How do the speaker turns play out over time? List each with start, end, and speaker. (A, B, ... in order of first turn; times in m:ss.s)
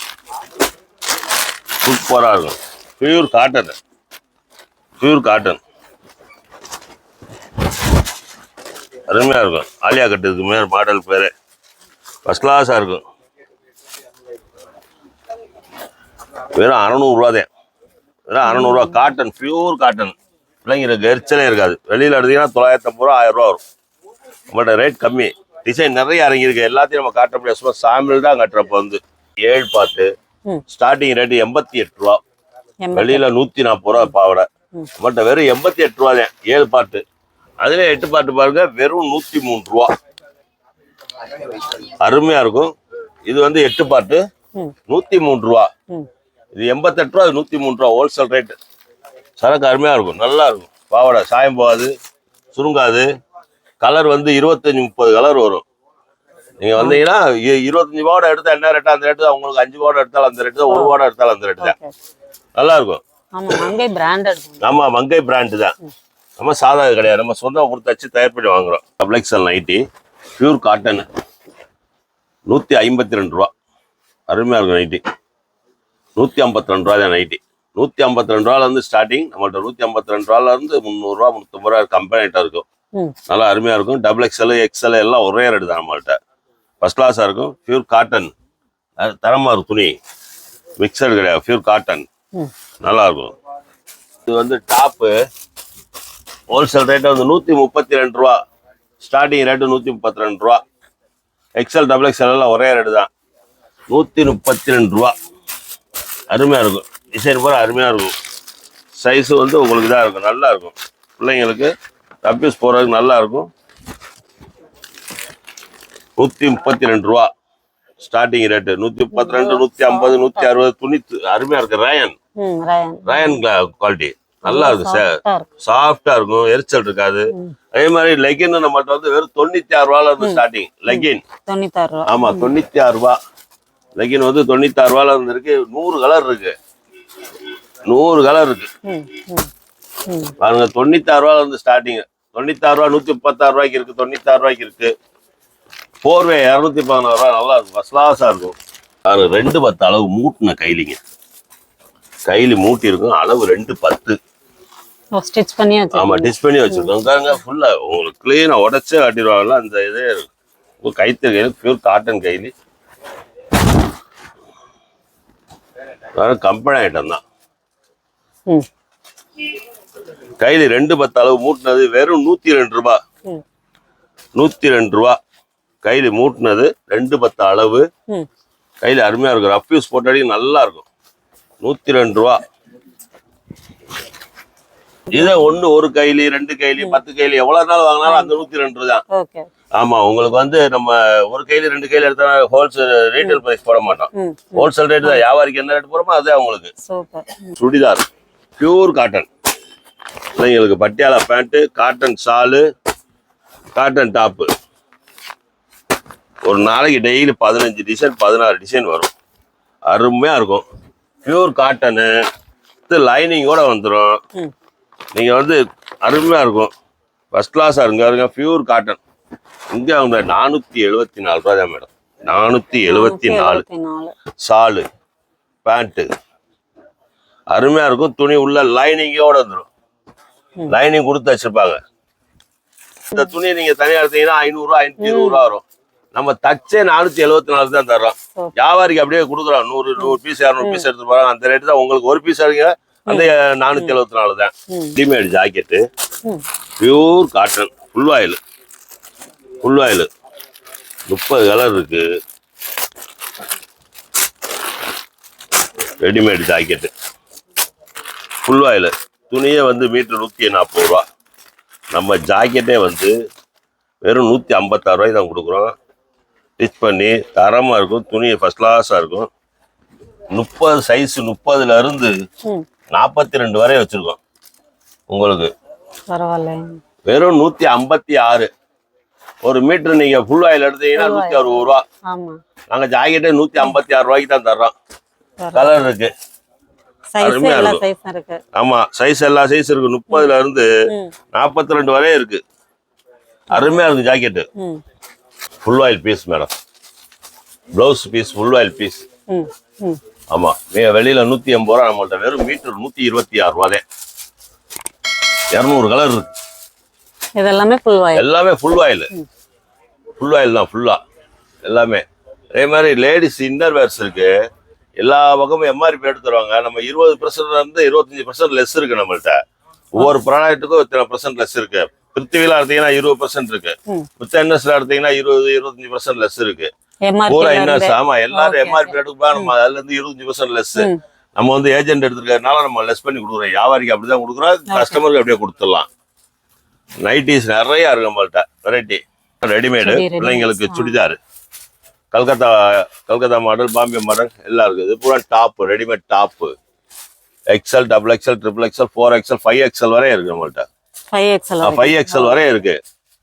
0:01.8-0:03.8 A
0:05.0-0:05.6 A
0:09.1-0:11.3 A
0:12.2-0:13.0 A
0:16.5-0:17.5 A
0:18.3-0:23.6 A
0:18.4-0:19.0 B
0:24.5-0:30.1 A
0:30.7-0:32.2 A
0:32.8-0:33.3 B
0:33.0-0:34.5 A
0:35.0-0:37.0 A
0:37.6-0:39.9 A
0:42.0-0:42.7 A
0:43.3-0:44.2 A
0:44.9-0:45.7 A
0:46.6-0:48.6 A
0:49.4-0:51.9 A
0:52.6-0:53.1 A
0:53.8-0:55.6 A
0:56.6-1:01.8 A
0:56.8-0:57.0 B
1:00.7-1:01.0 B
1:01.6-1:01.9 B
1:02.6-1:03.7 A
1:03.3-1:04.7 B
1:04.6-1:05.8 A
1:06.4-1:09.8 A
1:10.4-1:11.1 A
1:12.5-1:13.5 A
1:14.3-1:15.0 A
1:16.2-1:22.7 A
1:23.3-1:26.2 A
1:26.8-1:28.3 A
1:29.0-1:30.0 A
1:30.8-1:32.1 A
1:32.8-1:33.3 A
1:34.3-1:35.2 A
1:36.5-1:38.4 A
1:39.0-1:40.6 A
1:41.6-1:43.1 A
1:43.9-1:45.2 A
1:46.3-1:48.1 A
1:49.0-1:51.7 A
1:52.2-1:53.5 A
1:56.2-1:57.3 A
1:58.0-2:02.2 A
1:59.1-2:00.5 B
2:02.4-2:03.4 B
2:03.1-2:11.2 A
2:04.4-2:05.5 B
2:10.2-2:12.5 B
2:12.1-2:13.2 A
2:14.0-2:16.5 A
2:17.9-2:18.7 A
2:18.8-2:19.5 B
2:20.1-2:20.4 B
2:20.4-2:24.9 A
2:26.0-2:31.0 A
2:32.3-2:34.2 A
2:35.2-2:36.9 B
2:35.9-2:40.3 A
2:40.8-2:42.5 A
2:46.1-2:47.2 A
2:50.4-2:53.0 A
2:54.4-2:55.2 A
2:55.8-2:57.9 A
2:58.8-3:00.9 A
3:01.6-3:02.4 A
3:05.1-3:09.0 A
3:05.1-3:05.5 B
3:08.0-3:08.3 B
3:09.1-3:09.5 B
3:09.8-3:16.7 A
3:14.1-3:15.2 B
3:16.8-3:17.6 B
3:17.6-3:18.0 A
3:18.6-3:19.3 A
3:20.4-3:22.6 A
3:23.8-3:24.5 A
3:26.4-3:29.1 A
3:29.9-3:30.6 A
3:31.2-3:32.2 A
3:32.9-3:34.2 A
3:35.2-3:36.7 A
3:37.3-3:39.0 A
3:39.7-3:43.6 A
3:42.8-3:44.1 B
3:44.4-3:44.9 A
3:45.6-3:46.1 A
3:47.5-3:49.7 A
3:50.7-3:51.8 A
3:53.1-3:55.6 A
3:55.0-3:55.4 B
3:56.2-4:05.8 A
4:00.0-4:00.9 B
4:03.1-4:04.0 B
4:04.7-4:05.0 B
4:06.8-4:08.4 A
4:09.6-4:10.1 A
4:11.1-4:12.0 A
4:16.0-4:16.9 A
4:18.5-4:21.0 A
4:22.0-4:23.1 A
4:24.0-4:25.7 A
4:26.6-4:29.3 A
4:30.3-4:32.2 A
4:32.9-4:34.2 A
4:35.1-4:35.5 A
4:36.1-4:36.8 B
4:37.1-4:38.5 A
4:39.4-4:41.8 A
4:41.0-4:42.4 B
4:42.7-4:44.7 A
4:45.4-4:45.8 B
4:45.5-4:46.1 A
4:47.1-4:48.4 B
4:47.2-4:47.8 A
4:48.6-4:50.7 A
4:50.1-4:51.1 B
4:51.3-4:52.4 A
4:53.5-4:54.5 A
4:53.5-4:53.8 B
4:54.6-4:54.8 B
4:55.6-4:56.5 A
4:57.8-4:59.0 A
4:59.3-5:00.0 B
5:00.3-5:03.8 A
5:05.5-5:06.3 A
5:07.4-5:08.3 B
5:08.2-5:09.1 A
5:10.2-5:11.0 A
5:11.6-5:14.3 A
5:15.0-5:19.4 A
5:19.9-5:26.7 A
5:27.0-5:29.5 B
5:27.3-5:35.9 A
5:34.7-5:35.0 B
5:37.0-5:41.2 A
5:39.8-5:41.0 B
5:42.1-5:46.5 A
5:47.5-5:50.7 A
5:51.1-5:52.4 B
5:51.6-5:52.8 A